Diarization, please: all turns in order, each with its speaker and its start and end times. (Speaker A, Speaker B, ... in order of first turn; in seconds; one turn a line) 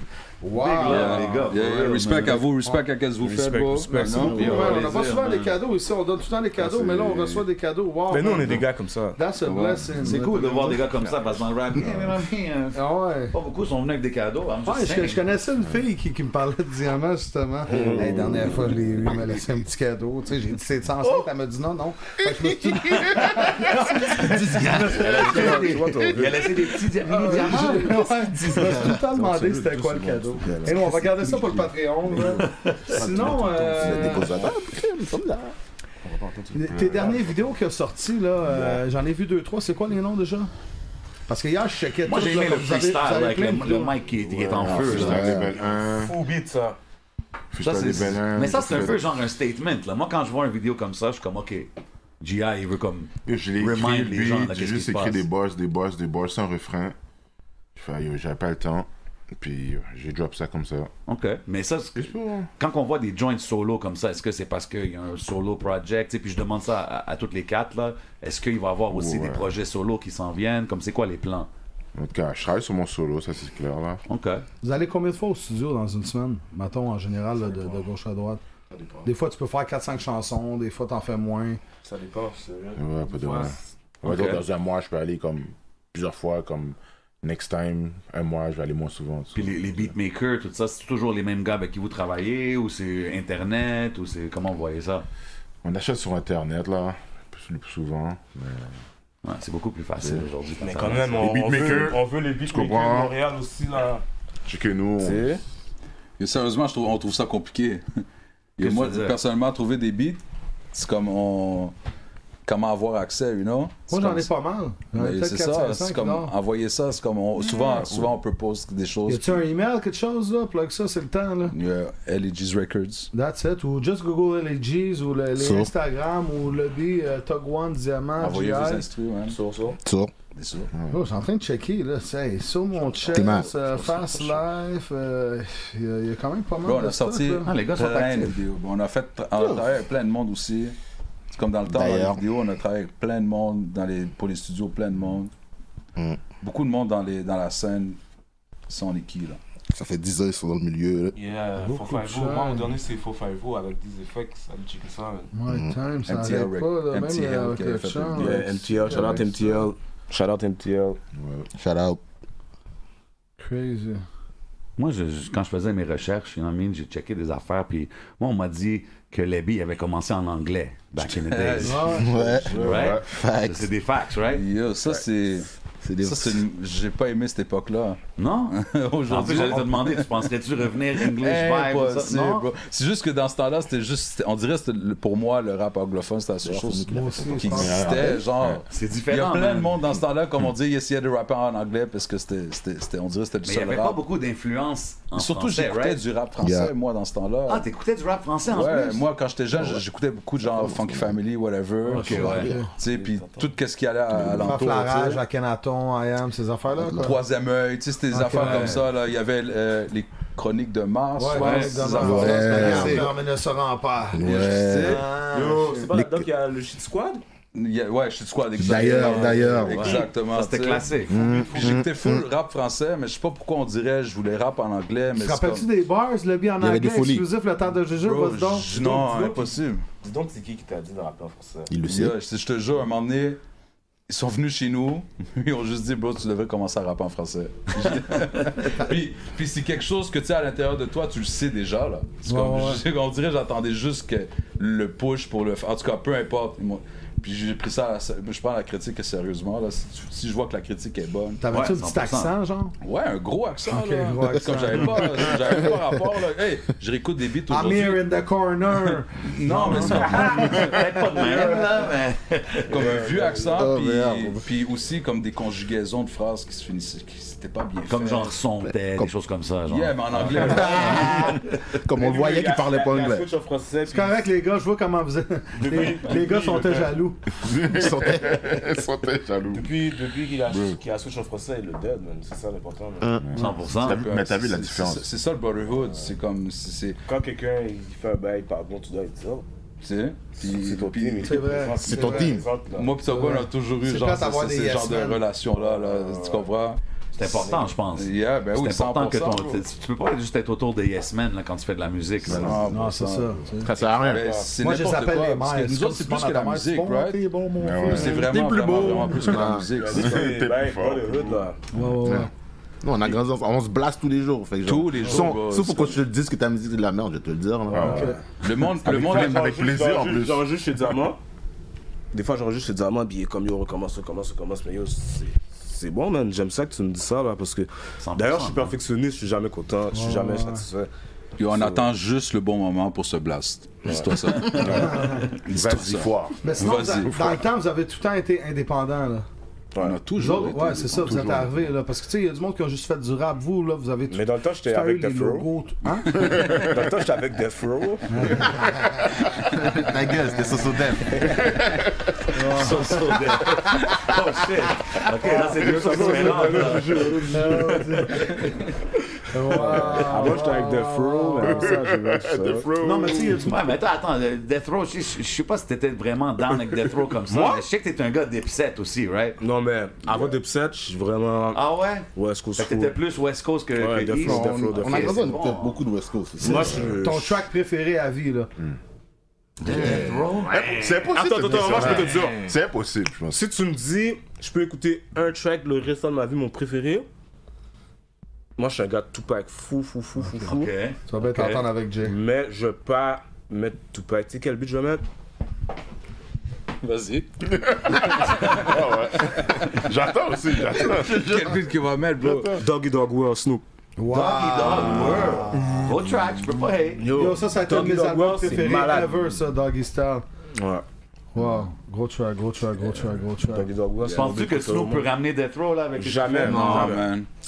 Speaker A: 0.4-1.5
Speaker B: 0.6-2.5
Speaker C: 0.8-5.2
Speaker D: 3.2-4.4
Speaker A: 4.0-10.9
Speaker E: 4.2-4.6
Speaker B: 4.3-5.5
Speaker C: 6.8-7.3
Speaker D: 8.1-9.2
Speaker C: 9.4-9.9
Speaker B: 10.0-15.2
Speaker A: 12.8-13.3
Speaker A: 14.7-25.7
Speaker D: 17.7-18.5
Speaker B: 23.0-28.1
Speaker E: 24.2-26.2
Speaker D: 24.8-26.7
Speaker A: 27.0-34.4
Speaker E: 28.5-29.5
Speaker D: 28.7-31.0
Speaker E: 30.4-32.4
Speaker B: 32.4-33.0
Speaker E: 33.0-35.5
Speaker D: 33.0-34.5
Speaker D: 36.0-37.2
Speaker A: 36.5-40.5
Speaker F: 36.7-37.2
Speaker A: 41.3-44.0
Speaker B: 42.1-45.3
Speaker F: 44.4-46.2
Speaker E: 44.6-45.5
Speaker D: 45.2-46.8
Speaker F: 47.5-49.0
Speaker B: 47.6-55.2
Speaker F: 53.2-57.0
Speaker F: 57.8-60.9
Speaker B: 61.1-71.5
Speaker F: 62.0-62.5
Speaker F: 68.9-69.5
Speaker F: 72.0-74.0
Speaker B: 74.1-74.5
Speaker A: 74.6-78.4
Speaker D: 77.5-77.8
Speaker D: 78.7-79.1
Speaker A: 79.0-81.6
Speaker D: 81.8-83.6
Speaker F: 82.8-89.9
Speaker B: 84.0-84.4
Speaker B: 89.3-95.1
Speaker F: 95.6-98.8
Speaker B: 99.2-101.3
Speaker D: 100.6-104.0
Speaker F: 101.2-103.2
Speaker F: 104.5-105.3
Speaker D: 105.0-105.4
Speaker C: 106.2-107.8
Speaker C: 108.6-110.2
Speaker B: 108.6-109.2
Speaker C: 110.7-111.7
Speaker C: 112.5-114.3
Speaker A: 113.9-116.3
Speaker C: 114.9-119.4
Speaker A: 119.1-121.5
Speaker C: 121.5-123.1
Speaker A: 123.1-128.9
Speaker E: 125.4-125.7
Speaker C: 128.2-129.4
Speaker D: 129.3-129.8
Speaker E: 129.8-130.1
Speaker C: 130.4-130.7
Speaker A: 130.9-137.5
Speaker D: 133.0-134.4
Speaker E: 133.1-133.5
Speaker C: 136.6-140.8
Speaker B: 137.4-138.3
Speaker E: 139.4-139.7
Speaker C: 141.3-145.3
Speaker E: 141.7-142.2
Speaker E: 146.0-146.2
Speaker C: 146.4-148.0
Speaker C: 148.7-149.4
Speaker E: 149.7-151.2
Speaker D: 151.2-155.3
Speaker A: 151.6-152.7
Speaker A: 155.3-159.2
Speaker E: 155.5-155.8
Speaker C: 156.1-159.3
Speaker D: 158.2-161.0
Speaker F: 161.2-161.5
Speaker E: 161.5-162.0
Speaker A: 163.4-164.0
Speaker B: 164.8-171.9
Speaker C: 171.0-172.2
Speaker A: 171.6-172.1
Speaker E: 171.9-173.7
Speaker F: 172.2-173.1
Speaker B: 172.5-174.5
Speaker C: 174.3-175.5
Speaker E: 175.8-176.4
Speaker C: 176.0-178.0
Speaker B: 178.2-178.6
Speaker C: 178.5-180.3
Speaker B: 179.1-182.5
Speaker C: 181.0-194.0
Speaker E: 186.4-188.2
Speaker A: 186.9-188.2
Speaker F: 188.0-188.5
Speaker B: 188.7-189.8
Speaker B: 193.4-196.0
Speaker C: 195.1-197.7
Speaker E: 196.4-196.7
Speaker B: 197.5-199.0
Speaker C: 198.5-205.2
Speaker E: 199.5-199.8
Speaker E: 200.4-201.2
Speaker A: 201.9-202.7
Speaker B: 201.9-202.5
Speaker E: 202.0-202.7
Speaker D: 202.8-203.5
Speaker E: 204.1-204.6
Speaker A: 204.4-207.2
Speaker E: 206.8-207.1
Speaker C: 206.9-213.1
Speaker A: 208.1-208.9
Speaker B: 208.4-208.7
Speaker A: 211.2-215.9
Speaker B: 211.4-211.9
Speaker E: 211.9-213.2
Speaker E: 214.1-215.0
Speaker C: 214.2-215.1
Speaker D: 215.3-217.2
Speaker E: 215.9-216.3
Speaker C: 217.5-225.7
Speaker E: 218.6-220.0
Speaker B: 219.0-221.2
Speaker E: 221.1-222.3
Speaker D: 221.1-221.8
Speaker A: 225.2-229.5
Speaker E: 226.6-227.3
Speaker C: 227.9-229.8
Speaker D: 230.0-231.7
Speaker E: 231.7-232.2
Speaker C: 231.8-233.4
Speaker C: 234.1-251.4
Speaker A: 242.3-242.8
Speaker A: 251.4-252.8
Speaker B: 251.5-252.3
Speaker C: 252.8-258.1
Speaker A: 253.7-255.6
Speaker E: 255.3-255.8
Speaker A: 257.5-261.9
Speaker C: 258.8-260.9
Speaker B: 259.8-262.8
Speaker C: 262.7-268.4
Speaker D: 262.7-263.7
Speaker E: 263.6-264.5
Speaker B: 267.9-271.2
Speaker E: 268.6-269.1
Speaker C: 269.7-271.4
Speaker A: 270.3-271.4
Speaker E: 270.9-273.3
Speaker D: 271.9-274.2
Speaker A: 273.9-277.2
Speaker D: 275.6-277.0
Speaker F: 277.4-279.7
Speaker E: 277.6-278.6
Speaker D: 279.5-283.1
Speaker F: 280.5-280.8
Speaker E: 283.0-283.5
Speaker F: 283.2-285.1
Speaker B: 283.4-284.0
Speaker C: 283.8-287.0
Speaker D: 287.1-289.5
Speaker C: 289.8-291.6
Speaker D: 290.4-292.9
Speaker A: 291.2-292.4
Speaker E: 291.8-292.5
Speaker C: 292.7-299.6
Speaker A: 293.0-295.2
Speaker D: 295.5-296.5
Speaker B: 297.2-302.6
Speaker D: 297.2-297.7
Speaker C: 302.3-303.5
Speaker F: 302.3-302.7
Speaker E: 302.3-302.6
Speaker A: 302.7-303.7
Speaker E: 303.6-304.4
Speaker D: 304.0-304.5
Speaker C: 304.1-307.2
Speaker A: 304.6-308.3
Speaker F: 307.6-308.3
Speaker C: 307.8-310.3
Speaker E: 308.1-309.7
Speaker D: 309.8-311.6
Speaker F: 309.9-311.5
Speaker A: 311.7-312.3
Speaker E: 312.0-312.3
Speaker E: 312.8-318.2
Speaker C: 314.6-316.0
Speaker D: 315.0-315.3
Speaker F: 317.7-318.1
Speaker A: 317.8-318.2
Speaker D: 317.8-318.2
Speaker C: 318.4-319.6
Speaker D: 318.8-321.2
Speaker F: 318.9-320.5
Speaker D: 322.1-330.9
Speaker B: 328.0-328.8
Speaker A: 329.9-330.6
Speaker C: 331.4-337.4
Speaker D: 331.4-331.9
Speaker D: 333.9-334.8
Speaker F: 334.6-335.0
Speaker A: 334.6-335.3
Speaker F: 335.5-336.5
Speaker A: 336.4-339.3
Speaker D: 339.7-340.0
Speaker C: 339.8-341.6
Speaker A: 340.2-346.7
Speaker D: 344.1-345.5
Speaker D: 346.2-348.5
Speaker A: 348.1-349.2
Speaker E: 349.6-351.6
Speaker A: 352.3-353.4
Speaker B: 352.4-358.0
Speaker A: 355.2-356.6
Speaker D: 355.3-357.8
Speaker F: 356.9-357.2
Speaker A: 357.3-358.6
Speaker A: 359.3-361.9
Speaker D: 359.5-362.7
Speaker F: 361.4-363.5
Speaker A: 362.8-363.7
Speaker B: 363.4-369.4
Speaker D: 367.3-367.7
Speaker D: 369.4-371.6
Speaker B: 371.5-375.8
Speaker D: 372.1-373.0
Speaker D: 373.8-375.3
Speaker E: 374.2-377.0
Speaker D: 376.4-377.4
Speaker A: 376.4-378.5
Speaker E: 379.6-380.7
Speaker B: 379.6-380.8
Speaker D: 380.5-382.5
Speaker F: 380.8-383.4
Speaker D: 383.3-387.1
Speaker D: 388.6-390.7
Speaker B: 390.5-391.7
Speaker A: 391.1-392.2
Speaker D: 392.1-395.0
Speaker C: 396.8-397.3
Speaker F: 397.5-401.6
Speaker C: 398.1-399.8
Speaker C: 400.7-402.6
Speaker F: 402.2-402.6
Speaker D: 402.6-403.6
Speaker A: 404.0-406.0
Speaker B: 404.1-407.1
Speaker D: 407.0-409.2
Speaker A: 407.1-410.2
Speaker D: 410.6-410.9
Speaker A: 411.4-413.7
Speaker D: 413.4-415.1
Speaker C: 414.0-414.3
Speaker B: 414.1-416.9
Speaker D: 416.0-417.1
Speaker C: 416.4-417.3
Speaker E: 416.5-417.0